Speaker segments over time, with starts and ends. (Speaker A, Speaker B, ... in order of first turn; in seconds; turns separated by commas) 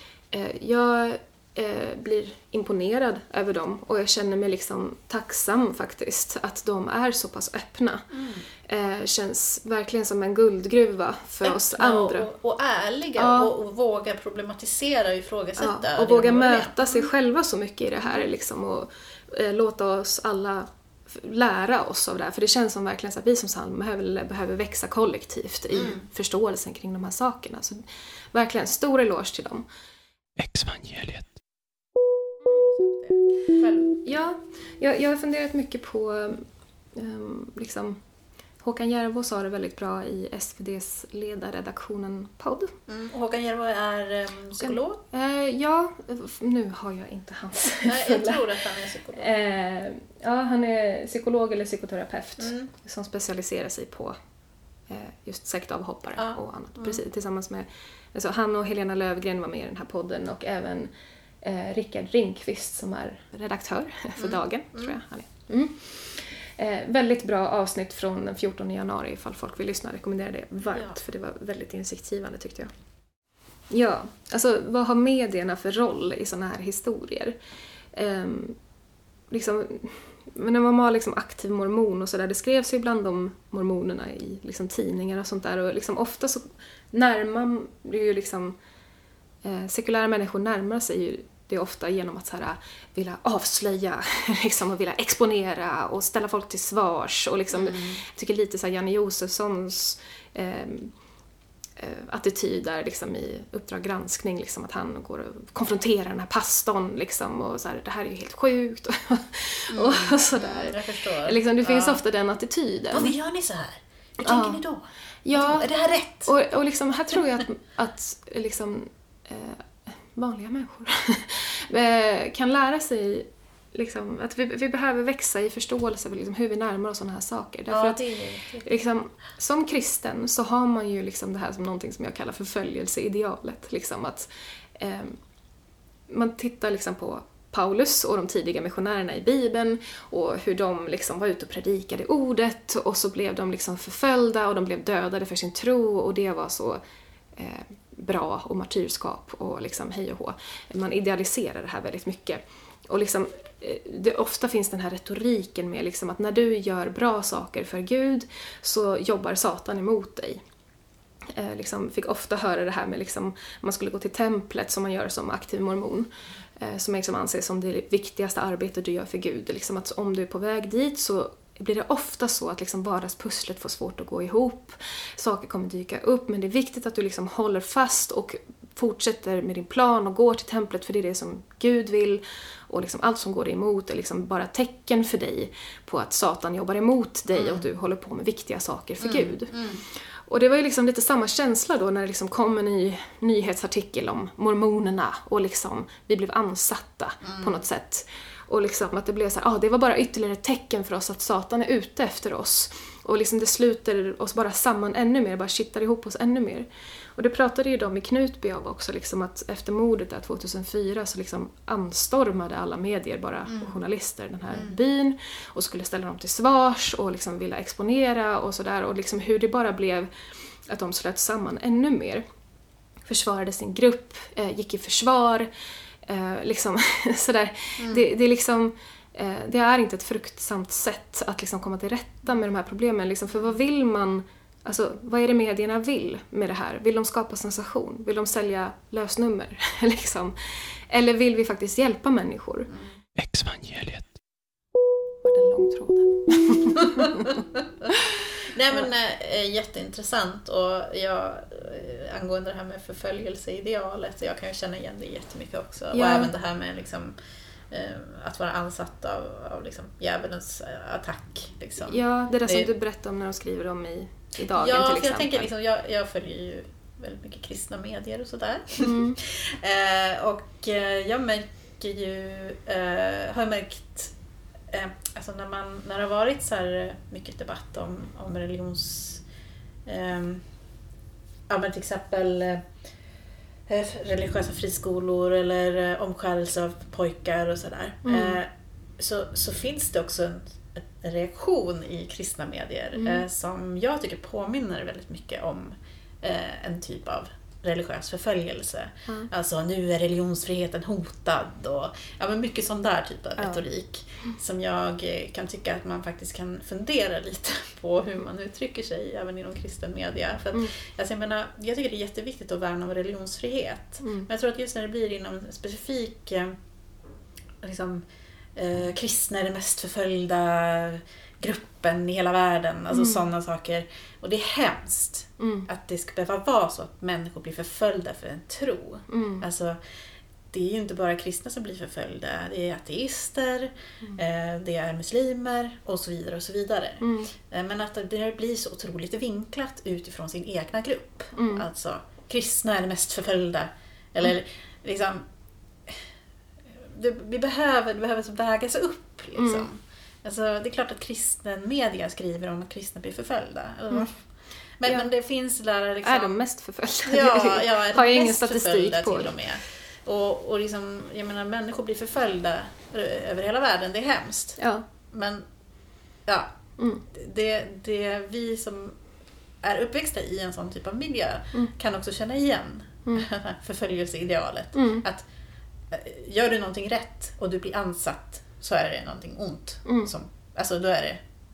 Speaker A: 0.3-8.1, Speaker B: 8.1-8.4, Speaker A: 8.6-12.3, Speaker B: 11.4-17.1, Speaker A: 13.2-13.5, Speaker A: 15.6-29.6, Speaker B: 25.7-26.1, Speaker C: 30.4-31.4, Speaker B: 32.5-34.1, Speaker A: 34.0-38.0, Speaker A: 38.6-42.8, Speaker B: 42.9-45.0, Speaker A: 44.6-48.5, Speaker B: 47.8-49.3, Speaker A: 49.1-54.1, Speaker B: 52.4-52.7, Speaker A: 54.9-60.9, Speaker B: 56.1-57.0, Speaker A: 61.4-72.7, Speaker B: 64.2-65.0, Speaker B: 70.6-71.0, Speaker A: 73.7-77.4, Speaker A: 77.9-78.6, Speaker A: 79.3-88.6, Speaker A: 89.4-100.9, Speaker B: 97.5-98.0, Speaker A: 101.8-113.1, Speaker B: 109.7-112.0, Speaker B: 112.9-116.3, Speaker A: 114.2-114.6, Speaker A: 115.2-115.7, Speaker A: 116.2-135.2, Speaker B: 127.7-128.8, Speaker A: 136.1-146.8, Speaker A: 147.4-160.4, Speaker A: 161.3-189.5, Speaker B: 187.3-187.6, Speaker B: 189.0-189.8, Speaker A: 190.3-220.1, Speaker B: 197.2-197.6, Speaker B: 213.5-213.8, Speaker A: 220.7-222.2, Speaker A: 223.1-225.5, Speaker A: 226.1-242.7, Speaker B: 227.8-228.1, Speaker C: 243.2-244.2, Speaker A: 245.2-247.4, Speaker B: 247.0-257.2, Speaker A: 255.9-256.3, Speaker B: 257.7-262.7, Speaker A: 261.8-265.5, Speaker B: 264.6-274.1, Speaker A: 268.8-269.2, Speaker B: 274.7-279.2, Speaker B: 279.8-280.4, Speaker B: 281.5-282.7, Speaker B: 283.7-316.6, Speaker A: 288.0-288.4, Speaker A: 292.9-293.2, Speaker A: 314.0-314.3, Speaker B: 317.6-329.8, Speaker A: 322.9-323.2, Speaker A: 325.4-325.7, Speaker A: 329.1-329.4, Speaker B: 330.5-345.3, Speaker A: 337.0-337.3, Speaker A: 341.3-341.7, Speaker B: 346.7-354.2, Speaker A: 349.3-349.7, Speaker B: 354.8-356.4, Speaker A: 356.0-359.3, Speaker B: 357.1-364.6, Speaker A: 364.6-364.8, Speaker B: 365.1-365.5, Speaker B: 366.3-366.6, Speaker A: 366.8-367.0, Speaker B: 367.1-369.0, Speaker B: 369.6-375.3, Speaker A: 374.7-375.0, Speaker B: 375.9-381.2, Speaker A: 379.8-380.1